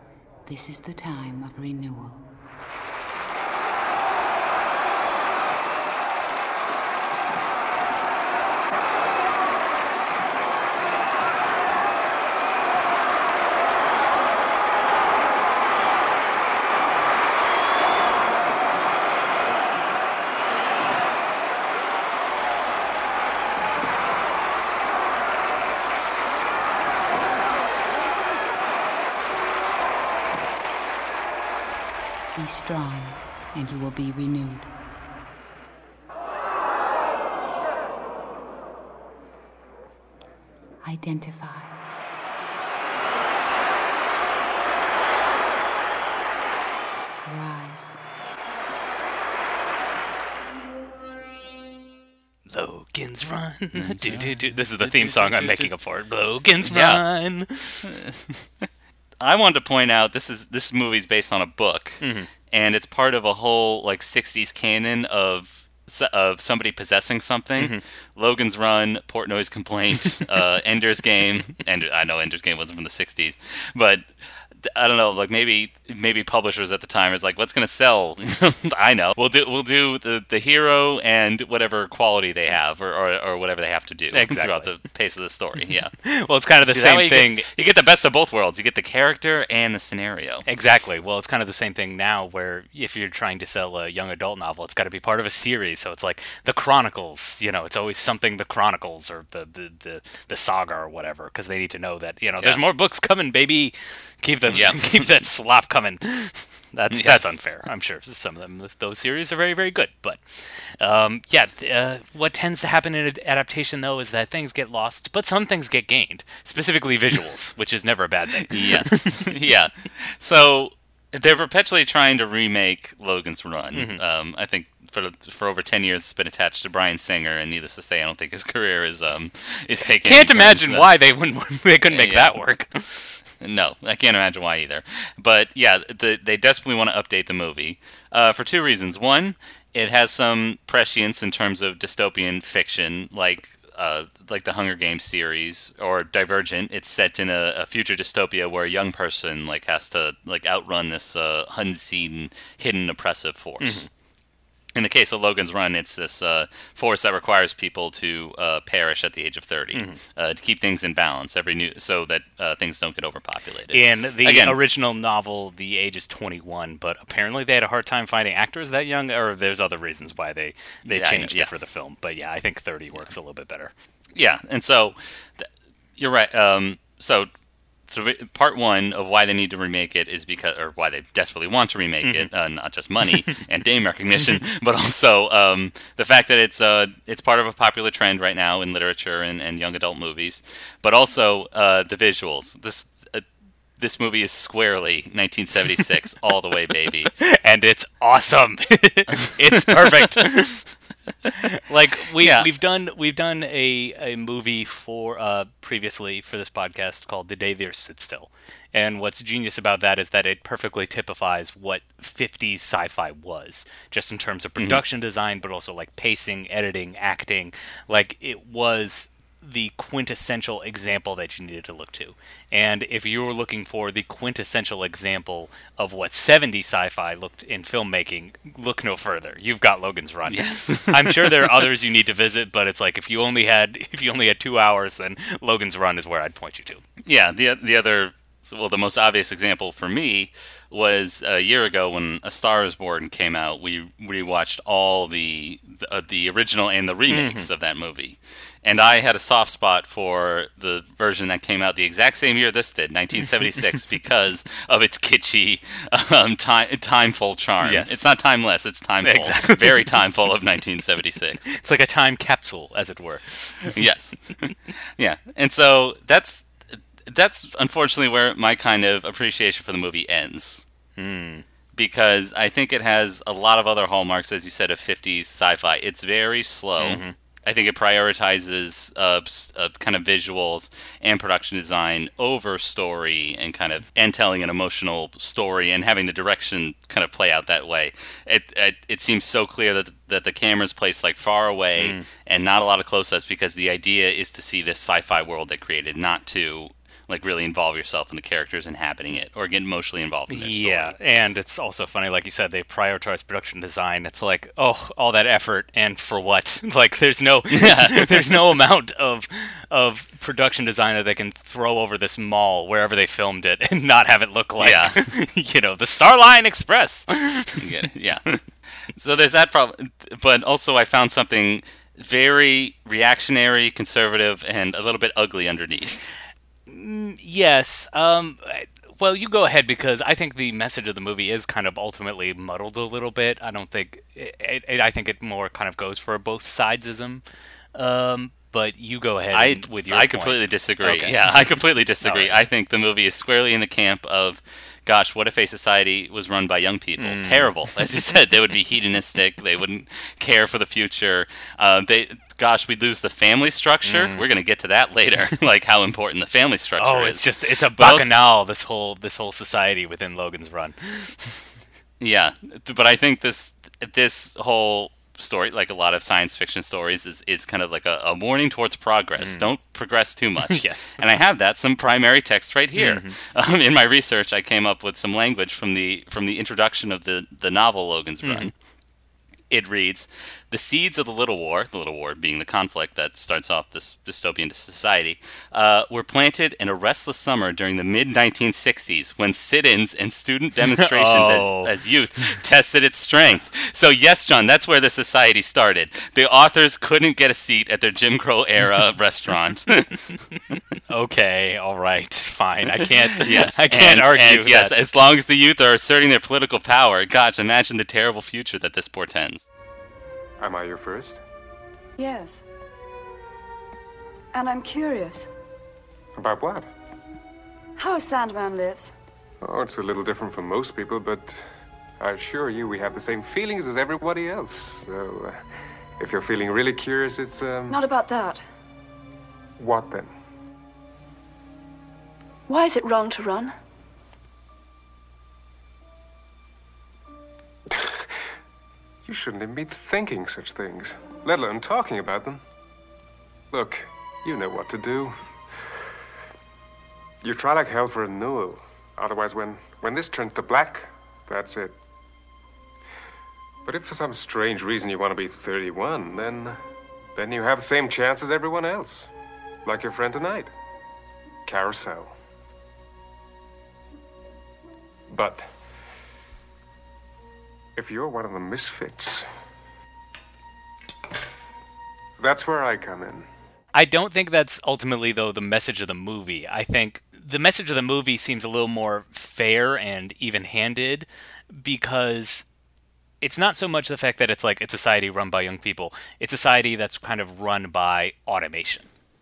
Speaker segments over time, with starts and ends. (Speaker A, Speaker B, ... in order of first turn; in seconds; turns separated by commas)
Speaker A: 0.5-2.2, Speaker A: 32.4-34.7, Speaker A: 40.8-41.8, Speaker A: 47.2-48.0, Speaker B: 52.5-57.9, Speaker C: 53.7-55.7, Speaker C: 56.7-57.0, Speaker C: 57.9-58.3, Speaker C: 59.2-85.9, Speaker B: 62.0-62.3, Speaker B: 84.1-84.7, Speaker B: 86.0-87.5, Speaker C: 86.6-90.5, Speaker B: 90.5-119.2, Speaker C: 104.5-104.9, Speaker C: 106.9-107.4, Speaker C: 118.5-131.0, Speaker B: 123.7-124.0, Speaker B: 129.9-133.2, Speaker C: 131.9-132.4, Speaker C: 133.4-153.9, Speaker B: 153.6-153.9, Speaker C: 154.7-164.6, Speaker B: 159.7-160.0, Speaker B: 163.7-173.7, Speaker C: 170.9-171.5, Speaker C: 174.2-177.3, Speaker C: 177.9-193.3, Speaker B: 182.0-182.3, Speaker C: 193.8-197.1, Speaker B: 197.2-200.8, Speaker C: 199.4-200.3, Speaker B: 201.7-236.8, Speaker C: 202.2-202.5, Speaker C: 230.3-231.7, Speaker C: 237.0-261.5, Speaker B: 247.1-247.5, Speaker B: 257.6-258.0, Speaker B: 259.0-259.9, Speaker B: 261.5-263.7, Speaker C: 263.7-270.7, Speaker B: 271.0-271.4, Speaker C: 271.7-300.9, Speaker B: 276.8-277.1, Speaker B: 291.8-292.1, Speaker B: 300.3-317.7, Speaker C: 307.5-308.4, Speaker C: 314.6-315.0, Speaker C: 317.6-326.0, Speaker B: 326.7-337.2, Speaker B: 337.7-341.3, Speaker C: 339.3-358.2, Speaker B: 342.0-342.4, Speaker B: 347.0-347.5, Speaker B: 353.8-354.2, Speaker B: 356.8-361.4, Speaker C: 362.0-378.5, Speaker B: 369.2-369.4, Speaker B: 370.5-371.0, Speaker B: 372.8-373.2, Speaker B: 378.2-378.5, Speaker C: 379.5-400.2, Speaker B: 390.7-391.7, Speaker B: 400.9-404.8, Speaker C: 402.8-409.5, Speaker D: 410.4-411.2, Speaker E: 412.0-412.4, Speaker E: 414.3-415.3, Speaker D: 416.2-416.7, Speaker E: 417.8-418.9, Speaker D: 419.4-425.4, Speaker D: 426.0-427.8, Speaker E: 427.7-428.4, Speaker D: 429.6-430.1, Speaker E: 432.5-433.5, Speaker D: 439.1-442.4, Speaker D: 443.5-445.2, Speaker D: 447.2-451.8, Speaker D: 453.6-456.6, Speaker D: 457.1-459.1, Speaker D: 459.6-460.5, Speaker D: 461.5-462.1, Speaker D: 465.1-465.5, Speaker D: 467.8-469.3, Speaker D: 472.2-473.3, Speaker B: 473.7-482.5, Speaker B: 483.2-488.9